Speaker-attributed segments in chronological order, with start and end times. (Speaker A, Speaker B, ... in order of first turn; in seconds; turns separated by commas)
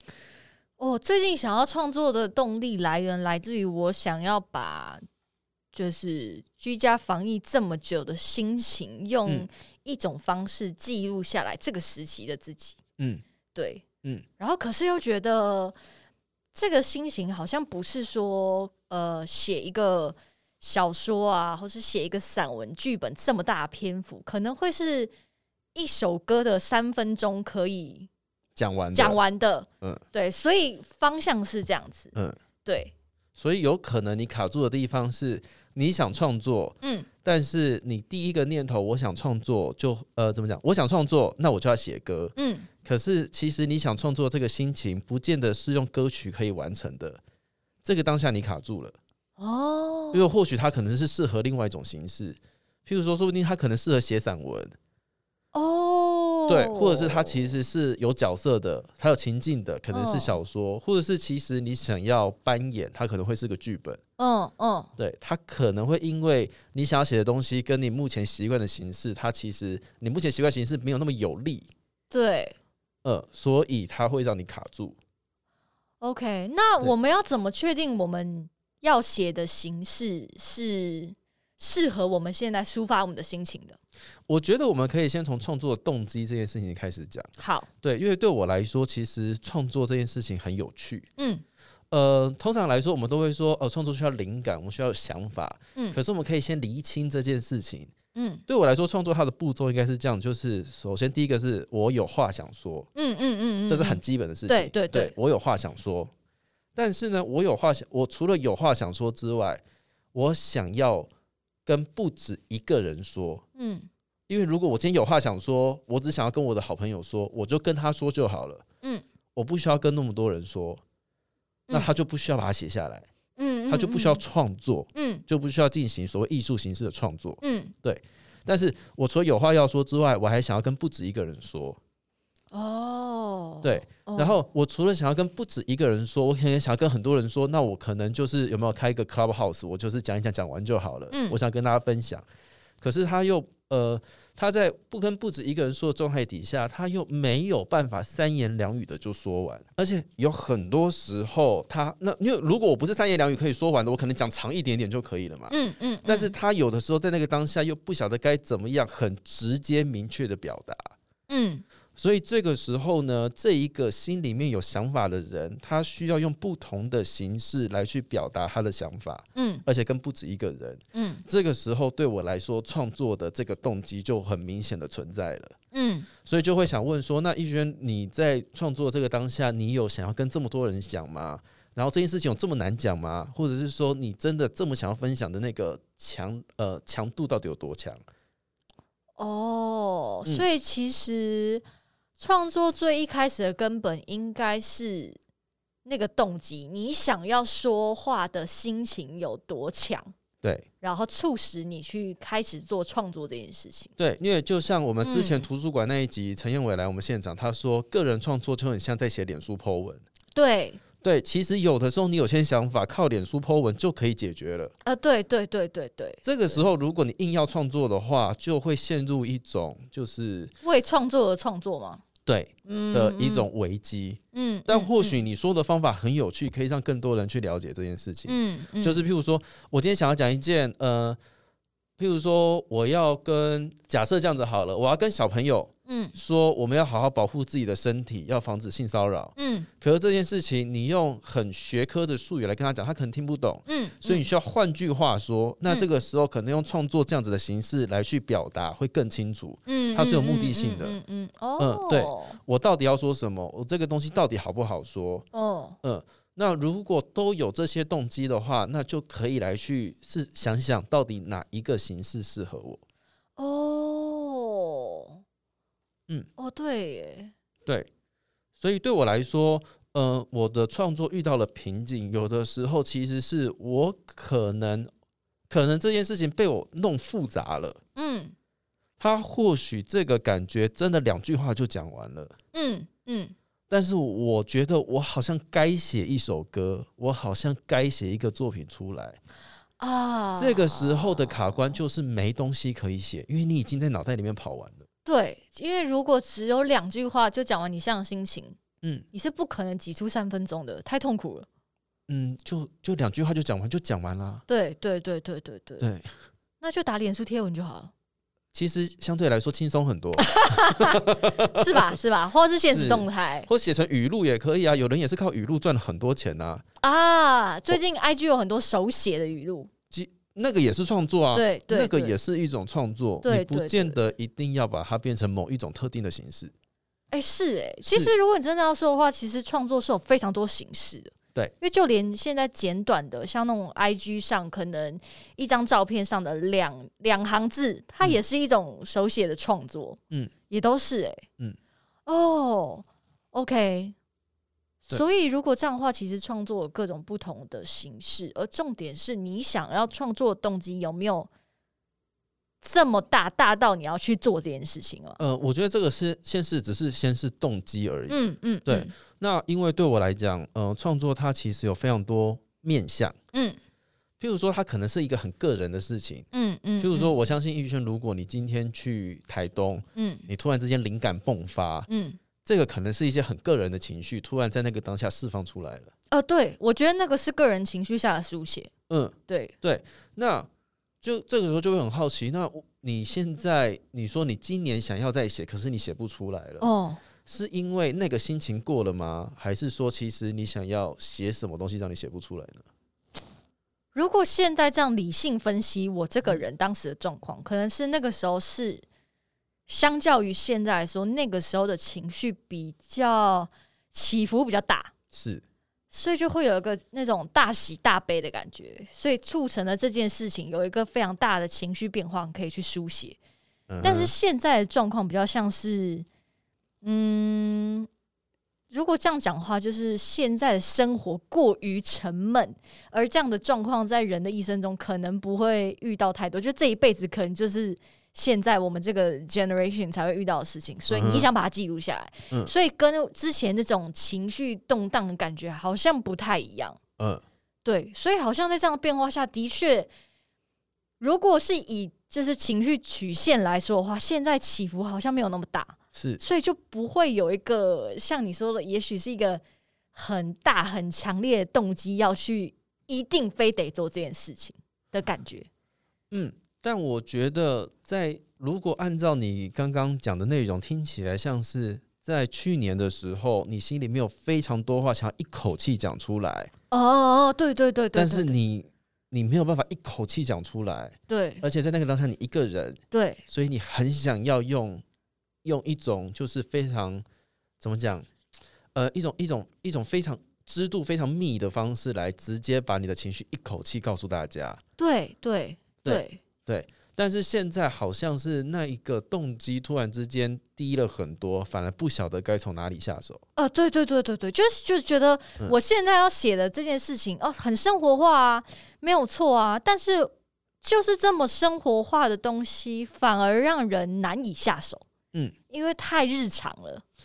Speaker A: 0.8-5.0, Speaker A: 5.7-12.8, Speaker A: 13.5-13.8, Speaker A: 14.4-15.8, Speaker A: 16.5-25.1, Speaker A: 25.8-28.1, Speaker B: 28.6-29.2, Speaker A: 28.9-32.1, Speaker A: 32.6-32.9, Speaker B: 33.4-42.3, Speaker A: 36.8-37.1, Speaker A: 42.4-42.7, Speaker B: 42.8-47.2, Speaker B: 47.8-49.0, Speaker A: 49.4-50.2, Speaker B: 50.1-54.8, Speaker A: 55.5-57.5, Speaker B: 56.5-64.0, Speaker A: 59.9-60.4, Speaker A: 64.2-64.9, Speaker B: 65.0-71.7, Speaker A: 72.1-72.6, Speaker B: 73.0-75.0, Speaker A: 76.0-83.8, Speaker B: 84.3-87.3, Speaker A: 87.4-87.7, Speaker B: 87.8-91.1, Speaker A: 91.2-91.4, Speaker B: 91.9-97.9, Speaker A: 98.1-98.4, Speaker B: 98.5-102.9, Speaker A: 103.0-105.1, Speaker B: 103.7-106.1, Speaker B: 106.8-109.6, Speaker B: 110.1-111.1, Speaker B: 111.7-113.4, Speaker A: 113.6-113.9, Speaker B: 114.3-118.6, Speaker B: 119.3-120.8, Speaker B: 121.7-123.1, Speaker A: 123.4-124.2, Speaker B: 123.7-131.8, Speaker A: 125.0-125.2, Speaker A: 127.4-127.7, Speaker A: 132.5-134.3, Speaker B: 133.6-142.2, Speaker A: 141.1-141.4, Speaker B: 142.8-155.5, Speaker A: 155.5-156.3, Speaker B: 156.1-160.9, Speaker A: 161.3-161.6, Speaker B: 162.0-175.6, Speaker A: 169.4-169.6, Speaker A: 170.9-171.2, Speaker A: 175.7-176.1, Speaker B: 176.2-188.0, Speaker A: 189.2-191.6, Speaker A: 192.2-195.2, Speaker A: 195.8-200.1, Speaker A: 200.8-203.9, Speaker B: 204.0-210.0, Speaker A: 205.0-205.5, Speaker A: 210.3-210.8, Speaker B: 211.0-214.7, Speaker A: 214.8-216.6, Speaker B: 216.2-220.5, Speaker A: 220.6-222.0, Speaker B: 222.3-231.2, Speaker A: 222.7-223.5, Speaker A: 224.3-225.2, Speaker A: 228.3-229.0, Speaker B: 232.0-251.0, Speaker A: 235.9-236.2, Speaker A: 239.4-239.7, Speaker A: 243.7-244.3, Speaker A: 249.7-252.4, Speaker B: 251.6-255.3, Speaker A: 255.3-255.8, Speaker B: 255.8-262.8, Speaker A: 263.4-265.2, Speaker A: 266.4-267.3, Speaker B: 268.6-274.9, Speaker B: 275.5-277.8, Speaker A: 278.0-278.3, Speaker B: 279.0-282.3, Speaker A: 282.5-283.3, Speaker B: 283.7-289.2, Speaker A: 289.8-291.6, Speaker B: 290.4-294.9, Speaker A: 295.1-298.6, Speaker A: 299.1-301.5, Speaker B: 302.1-304.4, Speaker A: 304.5-305.9, Speaker B: 305.8-306.1, Speaker A: 306.6-307.9, Speaker B: 308.5-311.9, Speaker A: 310.2-313.5, Speaker B: 312.7-316.6, Speaker A: 316.8-319.7, Speaker B: 319.9-326.5, Speaker A: 321.3-322.2, Speaker A: 323.2-324.0, Speaker A: 327.1-341.3, Speaker B: 327.9-328.1, Speaker A: 342.1-343.9, Speaker A: 344.9-351.3, Speaker A: 352.6-355.2, Speaker B: 355.2-363.1, Speaker A: 358.1-358.9, Speaker A: 363.3-363.6, Speaker B: 364.2-366.3, Speaker A: 366.3-367.1, Speaker B: 366.8-371.9, Speaker A: 370.0-370.3, Speaker A: 371.9-372.2, Speaker B: 372.4-375.9, Speaker A: 376.1-378.7, Speaker B: 378.9-380.5, Speaker A: 379.3-379.5, Speaker B: 381.0-386.7, Speaker A: 386.6-387.0, Speaker B: 387.3-392.6, Speaker A: 393.9-398.9, Speaker A: 399.7-404.9, Speaker B: 405.1-405.4, Speaker A: 405.9-413.2, Speaker B: 413.7-414.1, Speaker A: 413.8-416.1, Speaker A: 416.8-417.9, Speaker A: 418.7-436.8, Speaker B: 430.9-431.3, Speaker A: 437.6-439.9, Speaker A: 441.0-449.4, Speaker B: 445.9-446.2, Speaker A: 449.9-455.5, Speaker B: 456.1-466.5, Speaker A: 466.7-468.4, Speaker B: 467.9-474.8, Speaker A: 471.1-471.4, Speaker A: 472.9-473.2, Speaker B: 475.4-477.0, Speaker B: 477.6-478.1, Speaker B: 478.7-484.6, Speaker A: 484.8-486.2, Speaker B: 485.8-493.2, Speaker A: 493.4-504.9, Speaker A: 505.5-506.8